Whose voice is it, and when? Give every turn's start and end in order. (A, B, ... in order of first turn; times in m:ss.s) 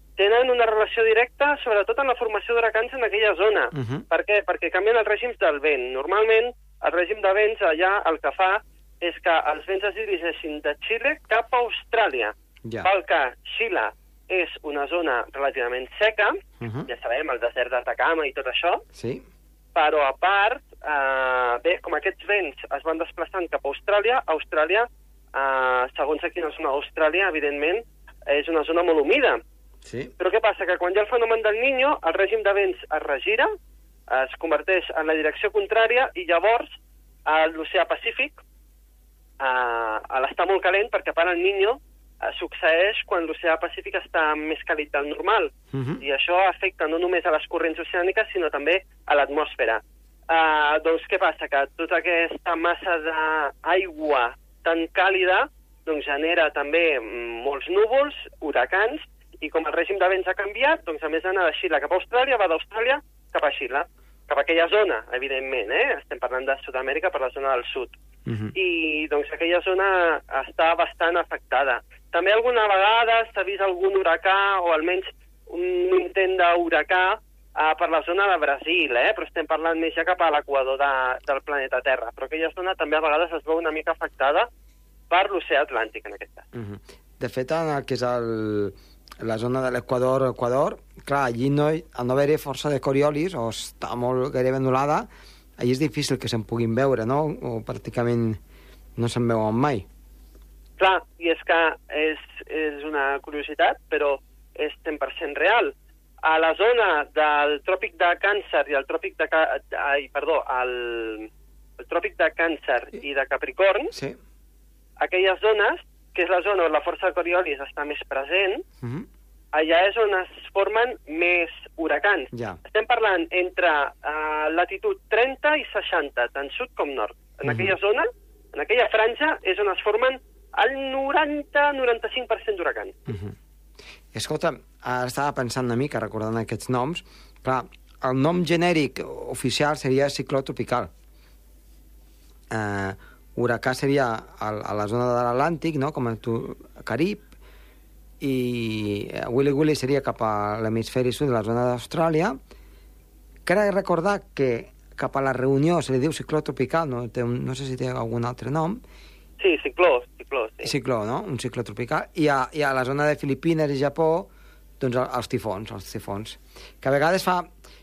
0:00.2-0:18.8 A
0:03.7-0:04.1 B
0:16.6-0:16.9 B
0:19.0-0:19.2 B
0:19.8-0:29.4 A
0:29.8-0:30.1 B
0:30.2-0:33.5 A
0:34.1-0:38.4 A
0:39.4-1:08.0 A
0:45.7-0:46.0 B
1:08.3-1:08.5 B
1:08.6-1:24.5 A
1:25.1-1:26.5 A
1:26.5-1:35.1 B
1:35.6-1:38.4 B
1:39.0-1:39.9 B
1:40.8-1:53.9 A
1:53.9-1:54.2 B
1:55.0-1:58.6 A
1:58.8-1:59.1 B
1:59.5-2:13.0 A
2:02.3-2:02.6 B
2:07.5-2:07.7 B
2:13.1-2:13.4 B
2:14.1-2:20.9 B
2:22.5-2:27.3 B
2:28.2-2:32.4 B
2:33.4-2:38.8 B
2:39.4-2:40.7 A
2:40.6-2:44.3 B
2:44.8-2:47.5 B